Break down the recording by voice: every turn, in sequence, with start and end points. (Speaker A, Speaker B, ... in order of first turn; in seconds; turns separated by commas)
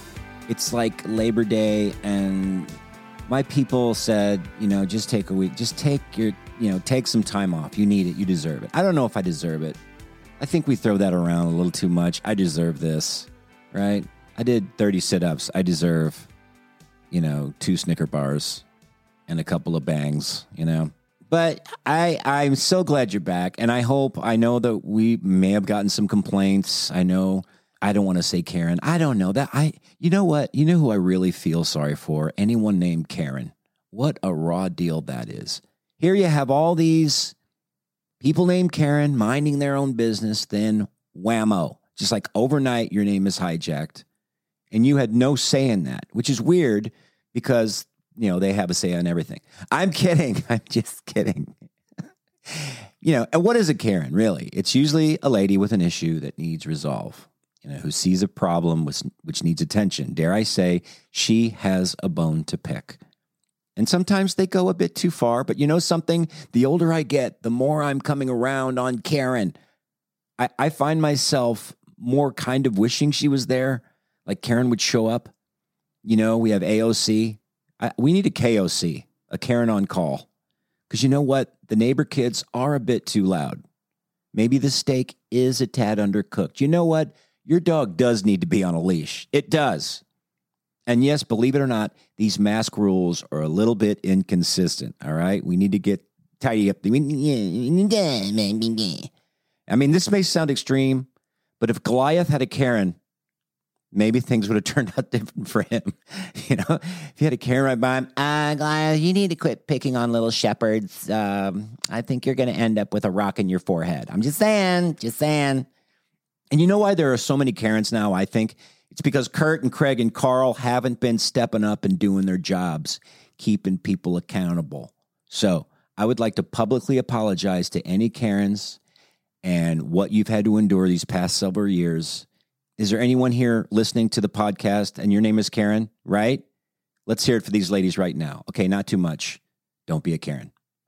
Speaker A: 0.5-2.7, Speaker A: 3.3-9.8, Speaker A: 10.4-16.3, Speaker A: 17.1-18.6, Speaker A: 19.3-37.3, Speaker A: 38.2-44.0, Speaker A: 44.7-51.6, Speaker A: 52.5-63.0, Speaker A: 63.8-69.6, Speaker A: 70.4-75.3, Speaker A: 76.0-80.3, Speaker A: 80.9-83.6, Speaker A: 84.3-90.0, Speaker A: 90.9-99.1, Speaker A: 99.7-101.1, Speaker A: 101.6-103.0, Speaker A: 103.9-115.7, Speaker A: 116.5-128.8, Speaker A: 129.4-132.2, Speaker A: 132.8-136.4, Speaker A: 137.1-140.5